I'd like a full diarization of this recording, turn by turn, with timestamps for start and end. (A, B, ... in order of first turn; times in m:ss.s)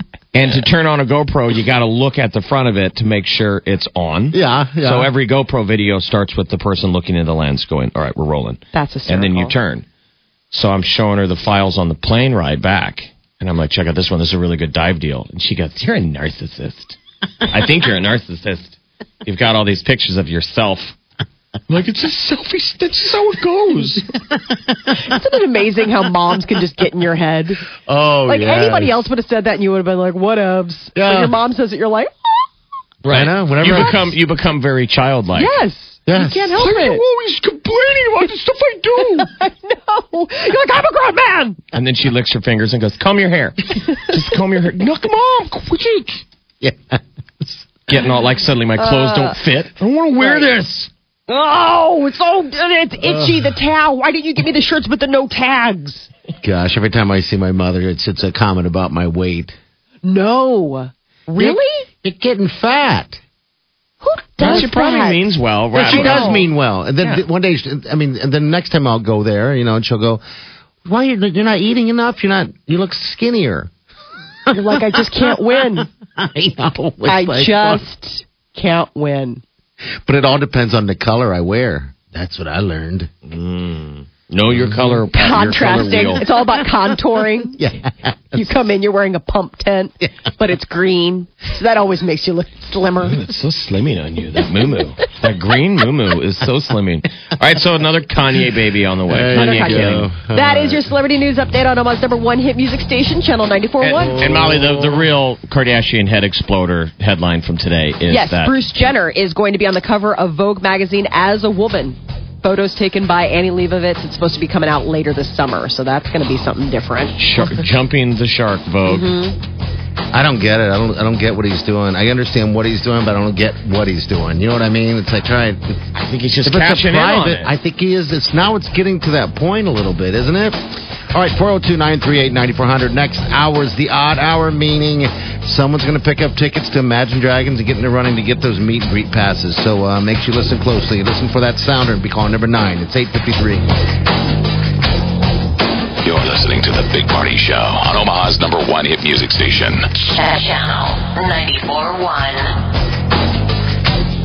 0:00.3-0:09.8 A
0:04.3-0:05.1 B
0:08.7-0:09.5 C
0:10.5-0:20.9 A
0:21.7-0:24.0 A
0:24.9-0:27.6 C
0:27.8-0:29.0 B
0:28.3-0:32.4 C
0:31.0-0:31.3 B
0:33.0-0:34.1 B
0:33.1-0:35.5 A
0:35.4-0:37.0 C
0:36.0-0:36.5 B
0:36.6-0:39.2 A
0:39.0-0:41.6 C
0:41.7-0:46.2 A
0:46.6-0:47.6 B
0:47.9-0:50.9 A
0:48.8-0:49.3 C
0:50.2-0:50.4 C
0:51.3-0:56.1 C
0:56.4-0:59.6 B
1:00.0-1:01.8 C
1:01.4-1:03.2 B
1:04.0-1:05.2 C
1:04.4-1:06.4 A
1:05.8-1:06.4 C
1:05.8-1:10.2 B
1:10.8-1:13.7 B
1:14.5-1:15.9 C
1:14.7-1:15.6 B
1:16.2-1:17.8 B
1:17.0-1:19.4 C
1:20.0-1:23.3 B
1:23.3-1:26.3 A
1:24.5-1:25.0 B
1:25.1-1:27.6 C
1:27.4-1:28.5 B
1:28.3-1:33.2 C
1:33.0-1:40.1 A
1:39.1-1:40.9 B
1:39.3-1:44.2 C
1:43.8-1:48.6 A
1:44.0-1:45.1 B
1:48.1-1:57.2 C
1:57.2-1:59.1 A
1:58.9-1:59.4 C
2:00.1-2:05.8 B
2:05.9-2:07.5 A
2:06.4-2:10.6 B
2:11.1-2:23.6 B
2:26.0-2:29.9 D
2:30.1-2:32.6 E